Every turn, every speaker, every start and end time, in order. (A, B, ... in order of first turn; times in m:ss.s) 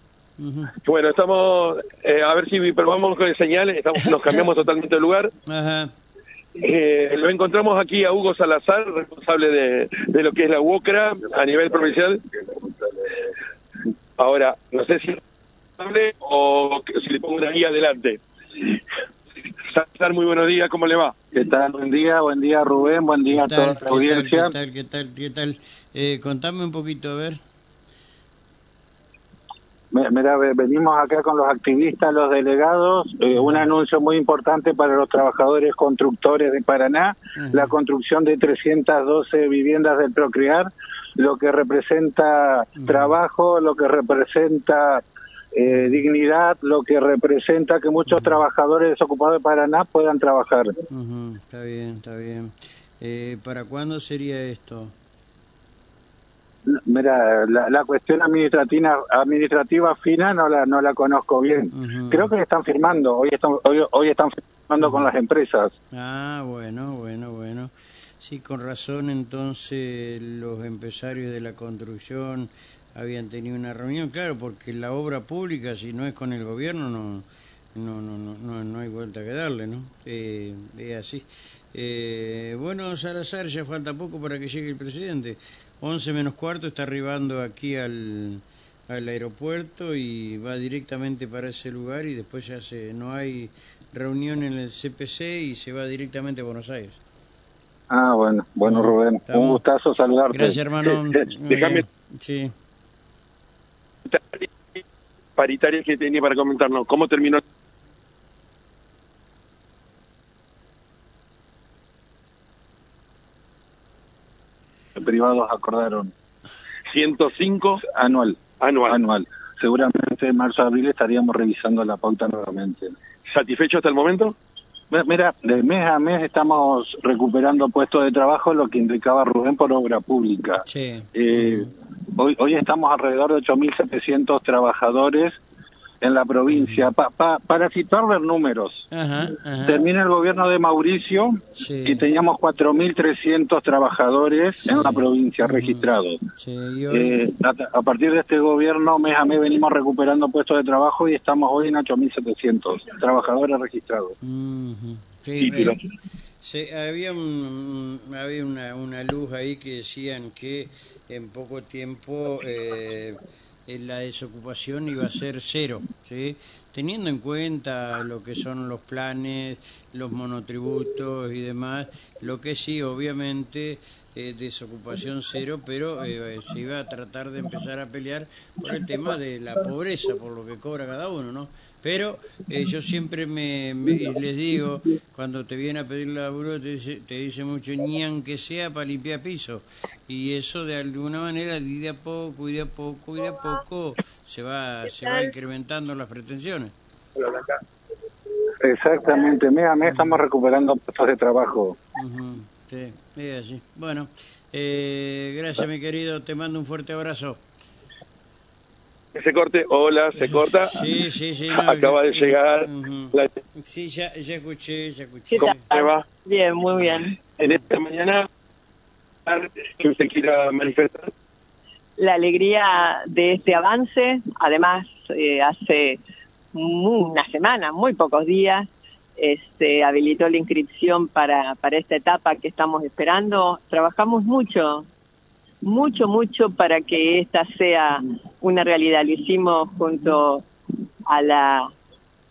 0:00.4-0:00.7 A
0:00.7-0:05.3 B
0:05.5-0:05.9 A
0:06.6-0:12.2 B
0:14.2-0:15.2 B
0:15.8-0:18.2 B
0:19.6-0:21.2 B
0:21.3-0:24.5 C
0:23.3-0:27.4 A
0:29.9-0:45.0 C
0:33.3-0:33.7 A
0:37.4-0:37.7 A
0:42.8-0:43.2 A
0:45.5-0:50.7 C
0:45.7-0:46.0 A
0:48.1-0:48.4 A
0:50.9-0:54.9 A
0:56.7-1:05.7 C
1:01.7-1:02.3 A
1:04.8-1:05.1 A
1:05.9-1:37.0 A
1:37.9-1:41.2 C
1:38.6-1:39.6 A
1:40.3-1:42.5 A
1:41.5-1:41.8 B
1:44.1-1:44.4 B
1:45.4-1:47.4 B
1:55.0-1:56.1 C
1:56.9-1:57.8 B
1:57.8-2:02.9 C
1:58.6-1:59.0 B
2:03.3-2:04.4 B
2:04.9-2:10.6 C
2:10.6-2:11.7 A
2:11.1-2:15.4 C
2:16.0-2:18.8 C
2:16.5-2:16.9 A
2:18.9-2:19.8 A
2:19.6-2:26.2 C
2:21.6-2:22.0 A
2:24.6-2:27.2 A
2:26.9-2:34.1 C
2:34.2-2:35.7 A
2:35.4-2:35.8 B
2:36.4-3:16.7 A
3:18.6-3:21.8 C
3:19.8-3:20.2 A
3:22.0-3:27.4 A
3:29.1-3:30.9 B
3:30.2-3:35.6 A
3:31.5-3:33.3 B
3:35.3-3:37.2 D
3:35.4-3:36.0 B
3:36.8-3:37.5 A
3:37.4-3:38.3 B
3:39.2-3:41.1 B
3:42.0-3:46.0 D
3:46.5-3:54.8 D
3:55.6-4:00.4 D
4:01.1-4:01.7 D